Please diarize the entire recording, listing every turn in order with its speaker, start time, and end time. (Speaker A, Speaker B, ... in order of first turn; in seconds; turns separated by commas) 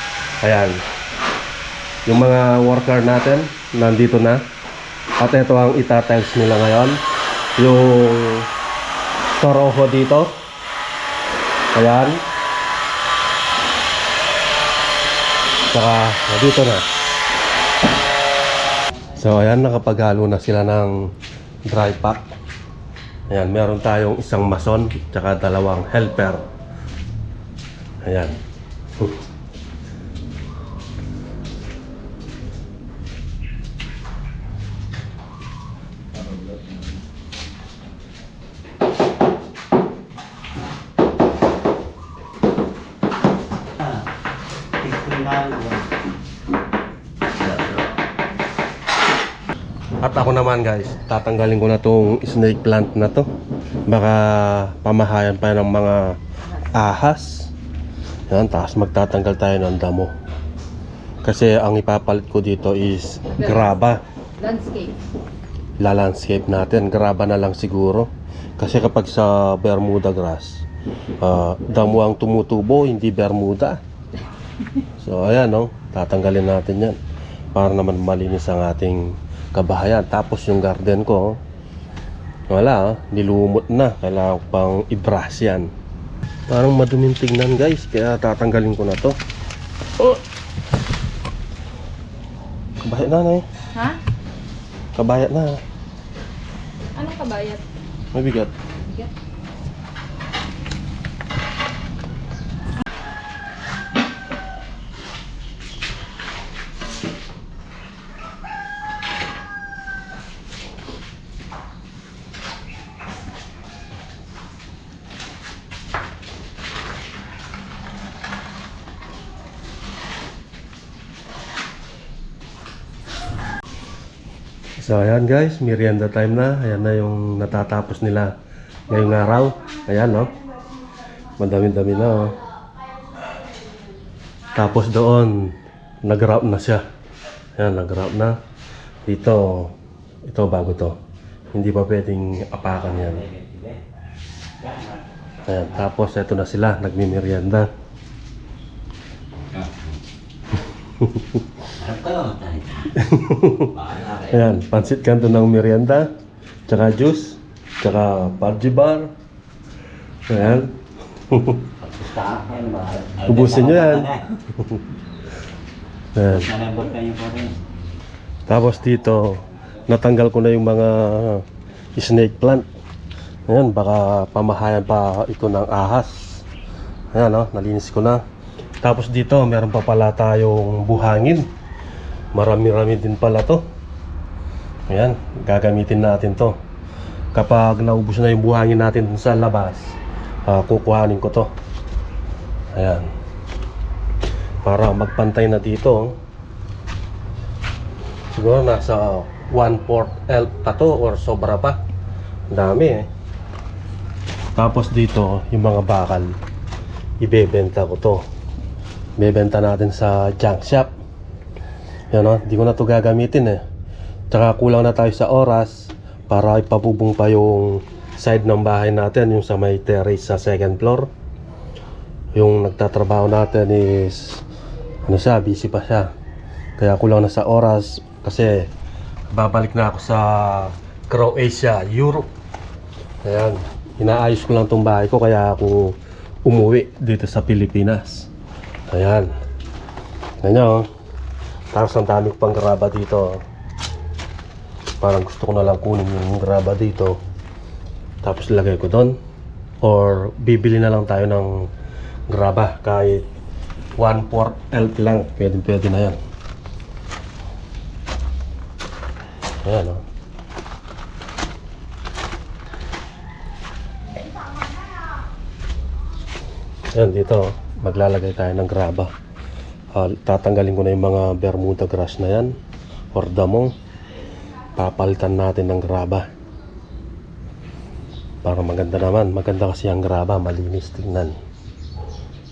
Speaker A: 0.4-0.8, Speaker A: 2.0-4.4, Speaker A: 5.2-7.0, Speaker A: 7.6-8.5, Speaker A: 9.3-10.3, Speaker A: 11.7-12.2, Speaker A: 15.7-16.9, Speaker A: 19.1-21.1, Speaker A: 21.6-22.2, Speaker A: 23.3-26.4, Speaker A: 28.0-28.4, Speaker B: 44.8-45.9, Speaker A: 50.0-53.3, Speaker A: 53.9-56.2, Speaker A: 56.7-57.5, Speaker A: 58.3-60.1, Speaker A: 61.2-64.0, Speaker C: 63.4-63.7, Speaker C: 64.4-64.9, Speaker A: 65.8-70.7, Speaker A: 71.2-73.8, Speaker A: 75.0-77.0, Speaker A: 77.5-81.4, Speaker A: 82.5-85.7, Speaker A: 86.5-89.2, Speaker A: 92.8-93.4, Speaker C: 93.7-94.0, Speaker A: 94.9-95.6, Speaker C: 97.0-97.6, Speaker A: 98.1-98.5, Speaker C: 98.8-99.1, Speaker A: 124.8-128.3, Speaker A: 128.9-130.3, Speaker A: 131.4-132.4, Speaker A: 134.5-136.8, Speaker A: 137.6-138.3, Speaker A: 139.1-139.7, Speaker A: 140.2-140.9, Speaker A: 141.5-143.2, Speaker B: 142.9-143.8, Speaker B: 144.6-145.0, Speaker A: 145.5-147.7, Speaker B: 149.5-149.8, Speaker A: 151.0-151.4, Speaker B: 151.7-152.9, Speaker A: 152.9-156.1, Speaker B: 153.8-154.3, Speaker A: 156.7-159.1, Speaker A: 160.3-160.8, Speaker A: 161.3-161.7, Speaker B: 161.9-164.2, Speaker A: 163.2-164.8, Speaker A: 166.1-166.5, Speaker B: 166.2-167.6, Speaker A: 168.5-171.4, Speaker A: 172.0-172.7, Speaker A: 173.5-176.4, Speaker A: 177.1-178.2, Speaker A: 178.8-181.4, Speaker A: 182.3-183.6, Speaker A: 184.9-186.6, Speaker A: 187.3-191.5, Speaker A: 192.7-193.1, Speaker A: 194.6-196.2, Speaker A: 198.3-201.8, Speaker A: 202.5-203.1, Speaker A: 204.6-206.3, Speaker A: 207.2-208.2, Speaker A: 209.2-210.9, Speaker A: 212.1-213.6, Speaker A: 214.3-221.1, Speaker A: 222.3-224.4, Speaker A: 225.1-226.1, Speaker A: 226.8-228.7, Speaker A: 229.3-232.3, Speaker A: 233.2-238.3, Speaker A: 238.9-239.3, Speaker A: 240.4-240.9, Speaker A: 241.7-243.4, Speaker A: 245.0-247.2, Speaker A: 248.2-249.2, Speaker A: 249.8-251.7, Speaker A: 252.3-253.2, Speaker A: 254.0-256.2, Speaker A: 259.6-260.0, Speaker A: 266.9-269.1, Speaker A: 269.9-272.5, Speaker A: 273.1-273.7, Speaker A: 274.8-276.3, Speaker A: 278.4-281.3